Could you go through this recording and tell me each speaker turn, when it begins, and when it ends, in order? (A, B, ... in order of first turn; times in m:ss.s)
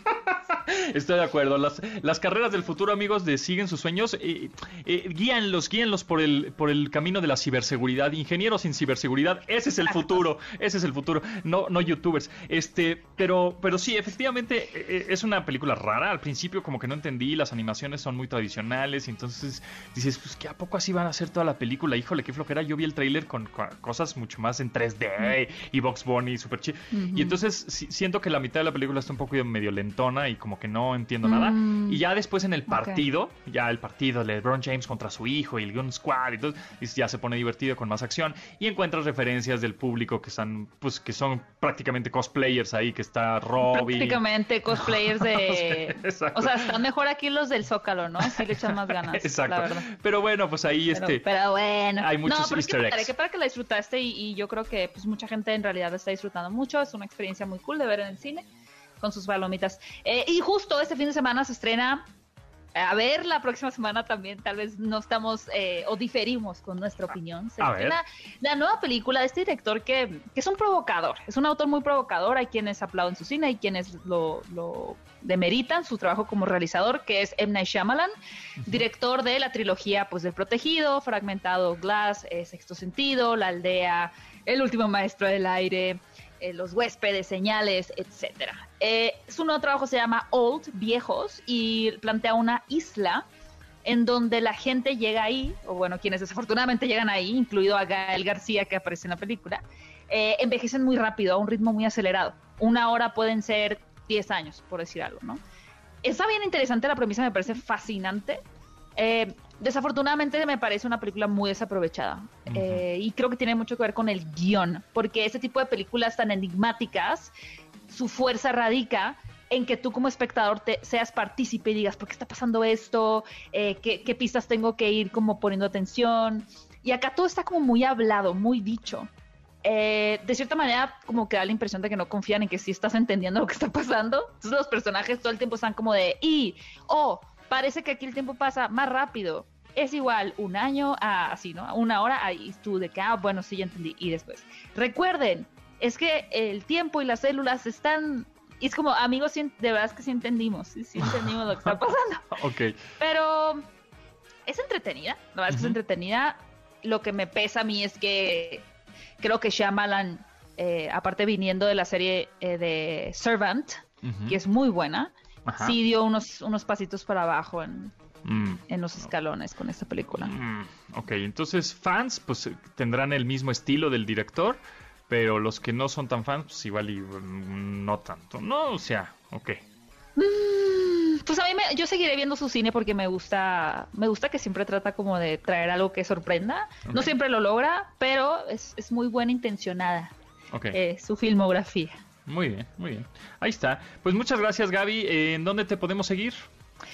0:00.1-0:46.8 A
0:26.9-0:27.4 B
0:31.2-0:32.0 B
0:32.7-0:33.0 B
0:43.6-0:49.8 B
0:48.2-0:51.2 A
0:50.9-0:58.5 B
0:52.0-0:53.1 A
0:59.0-1:02.1 B
1:02.8-1:18.1 B
1:07.6-1:08.0 A
1:18.7-1:33.3 B
1:33.8-1:45.4 B
1:46.0-1:48.4 B
1:49.0-1:57.3 B
1:52.5-1:52.8 A
1:57.9-2:09.1 B
2:09.6-2:32.4 B
2:32.4-2:32.9 A
2:33.0-2:33.6 B
2:34.5-2:38.7 B
2:35.5-2:35.8 A
2:39.2-2:47.9 B
2:44.0-2:44.4 A
2:45.5-2:45.8 A
2:48.2-2:48.6 A
2:48.7-2:50.3 B
2:50.2-2:59.6 A
3:00.2-3:10.1 B
3:06.9-3:07.1 A
3:10.5-3:10.8 A
3:10.7-3:12.0 B
3:12.2-3:16.5 A